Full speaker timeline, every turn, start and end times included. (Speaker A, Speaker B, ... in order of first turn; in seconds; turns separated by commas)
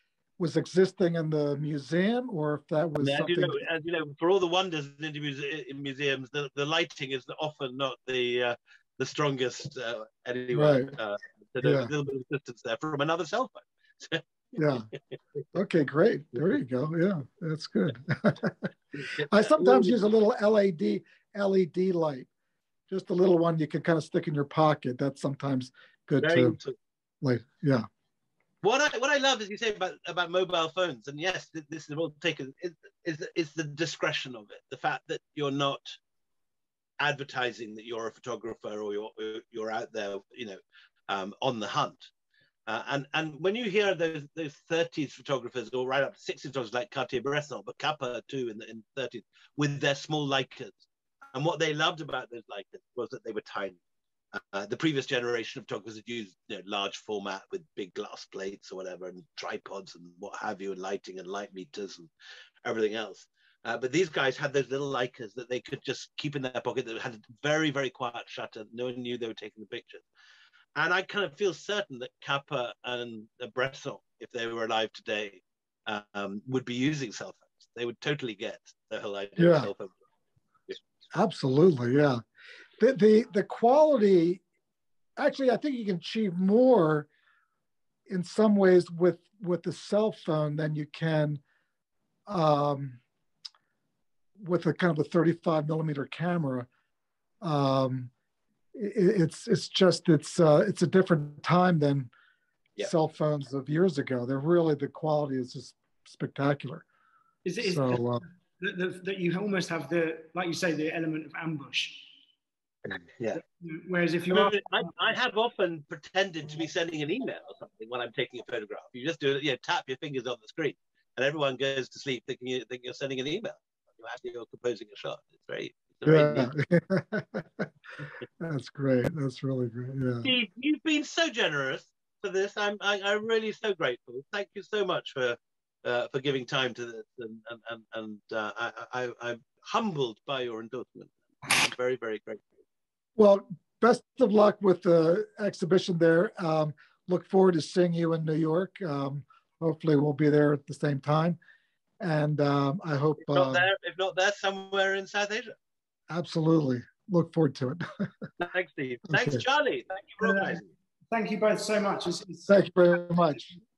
Speaker A: 0.4-3.6, Speaker B: 3.0-14.8, Speaker A: 10.5-10.9, Speaker A: 11.6-11.9, Speaker A: 14.6-14.9, Speaker A: 15.5-18.7, Speaker B: 18.9-19.9, Speaker A: 19.3-22.3, Speaker A: 22.9-26.6, Speaker B: 26.2-26.8, Speaker A: 27.2-27.9, Speaker B: 28.6-36.0, Speaker B: 37.0-42.1, Speaker B: 42.7-50.8, Speaker B: 51.3-53.8, Speaker B: 54.3-62.1, Speaker B: 62.6-70.0, Speaker B: 70.8-79.9, Speaker A: 79.4-79.7, Speaker A: 81.1-82.2, Speaker A: 82.8-84.4, Speaker A: 85.2-87.1, Speaker A: 88.1-91.4, Speaker A: 92.3-93.0, Speaker A: 94.4-96.7, Speaker A: 97.4-98.1, Speaker A: 98.7-102.1, Speaker A: 102.8-106.8, Speaker C: 107.4-108.0, Speaker A: 107.6-108.2, Speaker C: 108.6-112.1, Speaker B: 112.9-113.4, Speaker C: 113.3-114.9, Speaker B: 114.3-126.5, Speaker A: 126.0-127.7, Speaker A: 128.4-130.3, Speaker B: 130.2-142.4, Speaker A: 143.2-151.4, Speaker A: 152.0-153.7, Speaker B: 153.2-155.6, Speaker A: 156.1-158.1, Speaker B: 158.4-160.6, Speaker A: 159.1-159.4, Speaker C: 160.2-163.6, Speaker A: 162.5-163.5